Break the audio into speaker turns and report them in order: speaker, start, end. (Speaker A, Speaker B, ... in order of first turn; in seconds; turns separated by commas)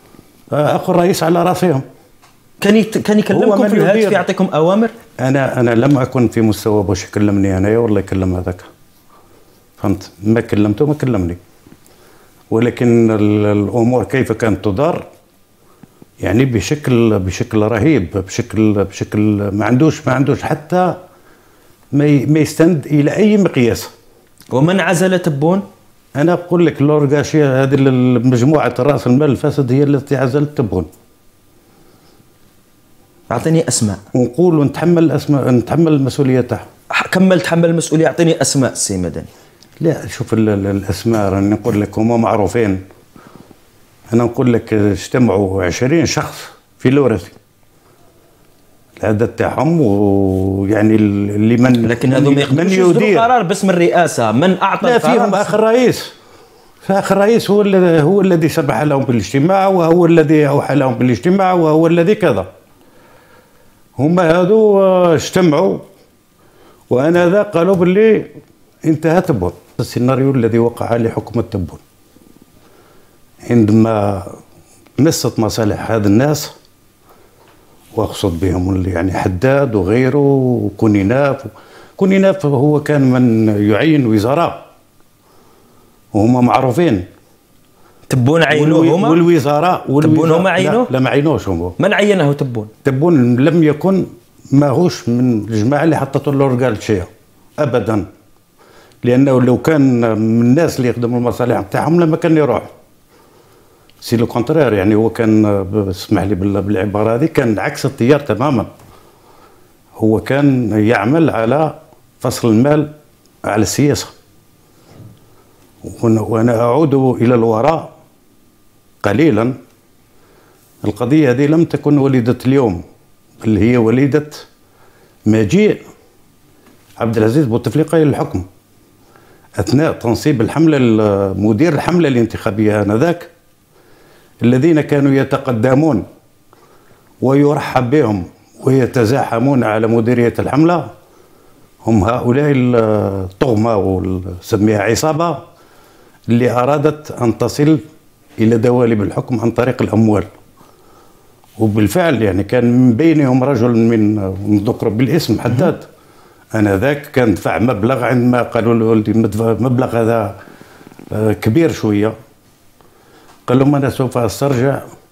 Speaker A: 0.5-1.8, Speaker B: 2.6-4.9, Speaker A: 3.3-4.2, Speaker A: 5.2-8.7, Speaker A: 9.8-11.4, Speaker A: 12.5-15.0, Speaker A: 16.2-20.9, Speaker A: 21.9-23.9, Speaker B: 24.5-25.6, Speaker A: 26.2-30.9, Speaker B: 33.3-34.0, Speaker A: 34.1-36.6, Speaker B: 36.9-39.3, Speaker A: 39.8-42.8, Speaker A: 44.1-47.3, Speaker A: 49.0-53.3, Speaker B: 51.8-55.5, Speaker A: 54.8-56.1, Speaker A: 56.9-62.5, Speaker A: 64.0-65.8, Speaker A: 66.9-68.3, Speaker A: 68.8-71.8, Speaker A: 73.5-74.4, Speaker A: 75.0-76.5, Speaker A: 77.9-84.6, Speaker A: 86.1-87.0, Speaker B: 88.1-89.2, Speaker A: 88.5-91.8, Speaker B: 90.0-90.9, Speaker B: 91.8-92.7, Speaker A: 92.8-98.0, Speaker A: 99.0-102.7, Speaker A: 104.0-108.7, Speaker A: 110.0-112.9, Speaker A: 113.5-114.1, Speaker A: 115.8-117.9, Speaker A: 119.0-119.5, Speaker A: 120.8-122.8, Speaker A: 123.4-124.5, Speaker A: 125.3-125.8, Speaker A: 127.0-128.4, Speaker A: 129.6-133.3, Speaker A: 134.4-136.0, Speaker A: 137.2-140.8, Speaker A: 141.8-145.4, Speaker A: 146.3-147.8, Speaker A: 148.4-150.2, Speaker A: 151.6-155.8, Speaker A: 156.5-160.3, Speaker A: 161.1-162.1, Speaker A: 163.5-164.8